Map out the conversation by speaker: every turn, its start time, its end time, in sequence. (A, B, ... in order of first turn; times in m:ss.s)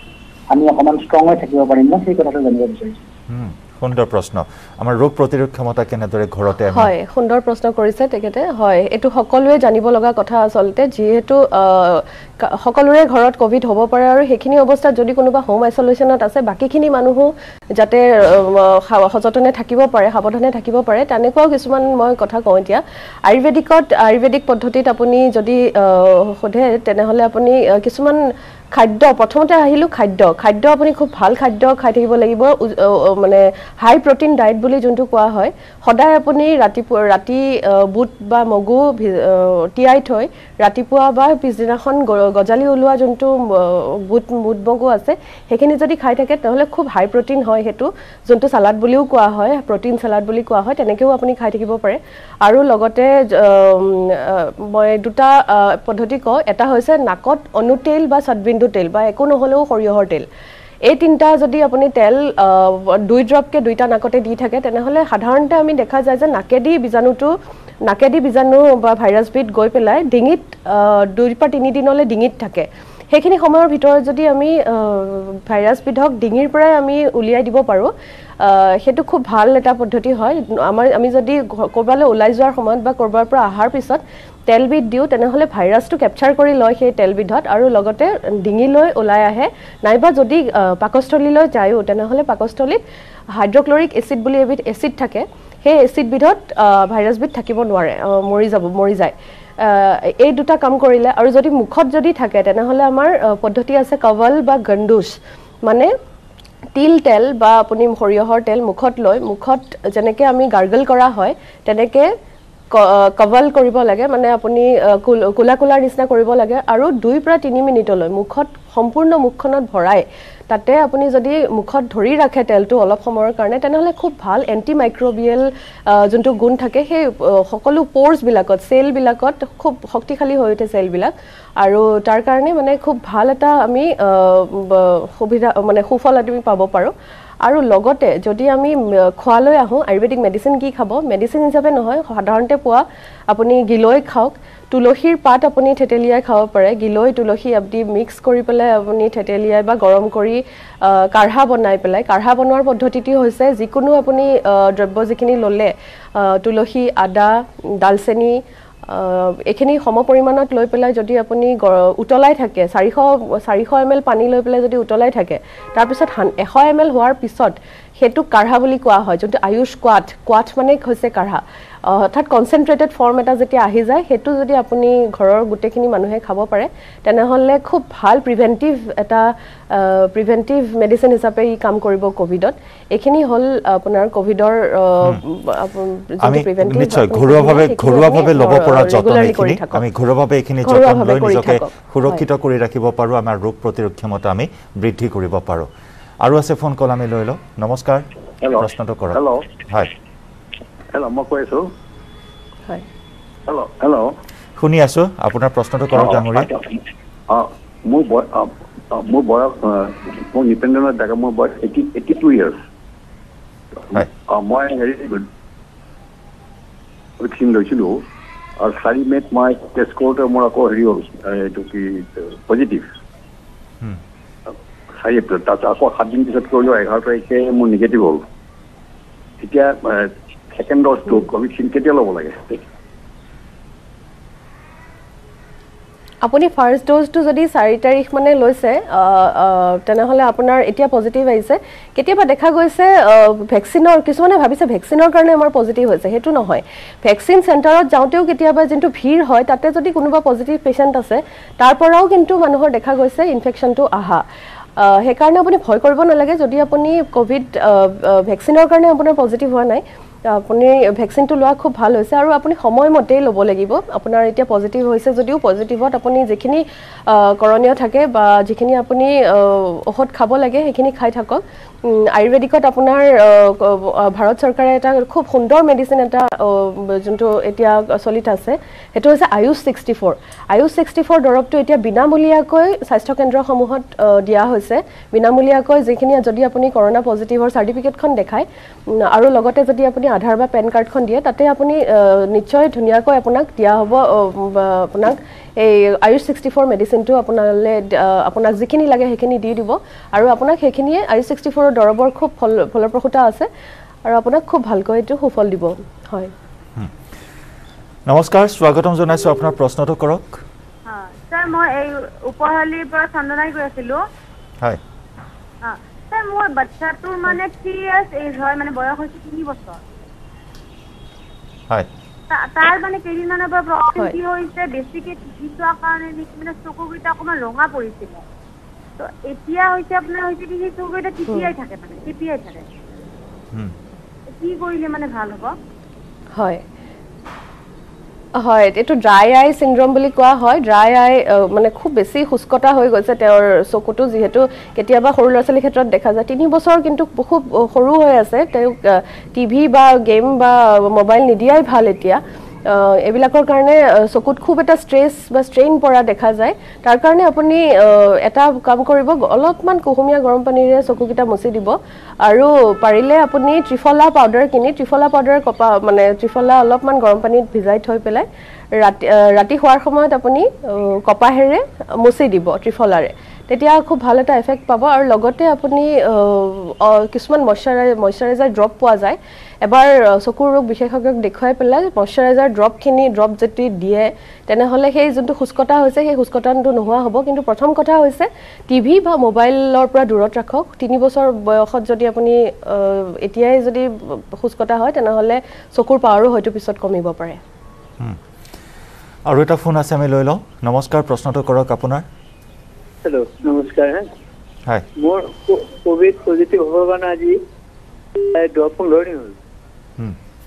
0:00.5-0:03.0 A
0:03.3-0:06.9 B
0:06.7-0:28.2 C
0:28.7-1:00.3 C
1:00.8-1:07.3 C
1:07.8-1:32.8 C
1:33.3-1:45.9 C
1:46.8-1:52.1 C
1:52.7-2:16.9 C
2:17.4-3:09.8 C
3:06.2-3:15.7 B
3:10.6-3:12.2 C
3:16.2-3:19.9 B
3:18.4-3:19.5 D
3:20.9-3:21.7 D
3:23.5-3:24.2 D
3:24.6-3:26.5 B
3:25.9-3:26.7 D
3:27.3-3:32.6 D
3:33.9-3:35.3 D
3:37.2-3:38.0 D
3:38.6-3:42.9 D
3:45.0-3:48.2 D
3:49.4-3:52.6 D
3:56.2-4:14.2 C
4:14.8-5:03.5 C
5:04.1-5:06.3 C
5:08.1-5:10.4 B
5:10.9-5:14.0 E
5:15.6-5:19.8 E
5:22.3-5:28.2 E
5:29.0-5:32.6 E
5:34.3-5:35.5 E
5:36.4-5:36.6 C
5:38.4-6:08.3 C
6:08.8-6:37.4 C
6:39.3-6:42.0 B
6:43.0-6:44.1 F
6:45.0-6:47.4 F
6:48.3-6:49.4 F